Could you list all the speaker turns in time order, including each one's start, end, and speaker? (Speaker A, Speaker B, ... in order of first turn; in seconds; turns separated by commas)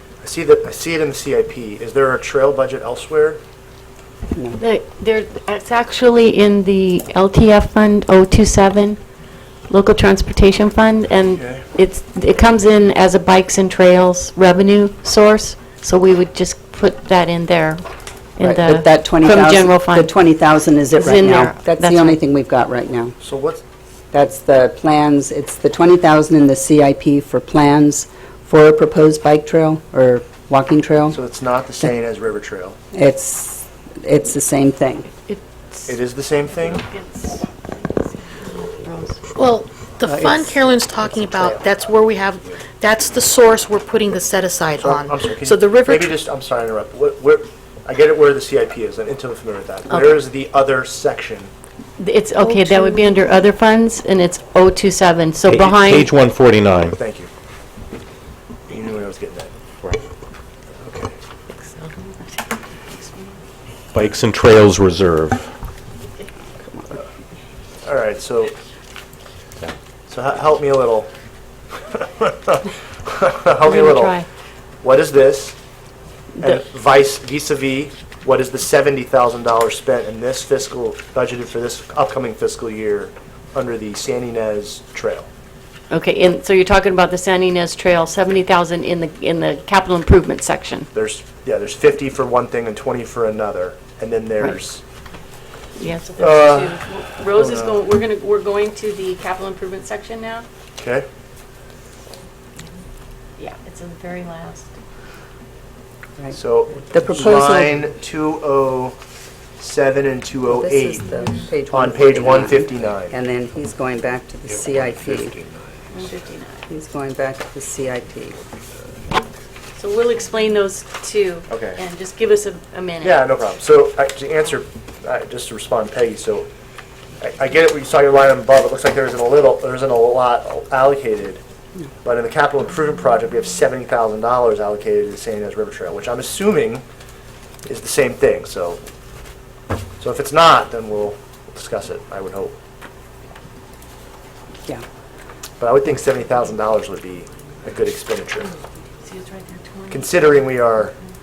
Speaker A: 0.2-3.4, Speaker B: 4.6-9.0, Speaker B: 9.7-20.1, Speaker A: 11.3-11.7, Speaker C: 18.4-23.1, Speaker B: 20.9-22.2, Speaker A: 23.2-23.6, Speaker C: 24.1-31.2, Speaker A: 31.1-32.8, Speaker C: 32.9-35.1, Speaker B: 35.3-35.9, Speaker A: 35.9-36.9, Speaker B: 36.7-39.2, Speaker D: 39.4-46.1, Speaker C: 40.1-41.1, Speaker A: 44.8-51.5, Speaker B: 49.9-50.2, Speaker B: 52.0-56.1, Speaker D: 52.4-53.3, Speaker E: 55.5-57.0, Speaker A: 56.9-57.3, Speaker A: 58.7-59.5, Speaker A: 60.8-61.2, Speaker B: 61.6-62.5, Speaker B: 63.0-63.4, Speaker E: 63.9-65.5, Speaker A: 67.8-68.5, Speaker A: 70.1-71.1, Speaker A: 71.9-74.2, Speaker B: 73.7-74.3, Speaker A: 74.8-75.6, Speaker A: 76.4-85.3, Speaker B: 85.9-90.9, Speaker A: 90.9-94.8, Speaker B: 95.8-100.5, Speaker A: 96.2-96.8, Speaker A: 97.3-97.8, Speaker A: 100.8-101.1, Speaker B: 103.4-104.8, Speaker A: 106.3-109.0, Speaker C: 106.9-107.8, Speaker A: 109.6-113.2, Speaker C: 110.5-115.3, Speaker A: 114.7-115.6, Speaker B: 115.9-116.6, Speaker C: 116.7-118.4, Speaker B: 119.8-123.3, Speaker A: 121.5-121.8, Speaker A: 123.0-126.5, Speaker A: 127.2-131.4, Speaker A: 132.0-136.8, Speaker A: 137.7-138.8, Speaker A: 140.0-142.6, Speaker A: 145.6-148.5, Speaker B: 149.1-150.0, Speaker A: 149.9-150.9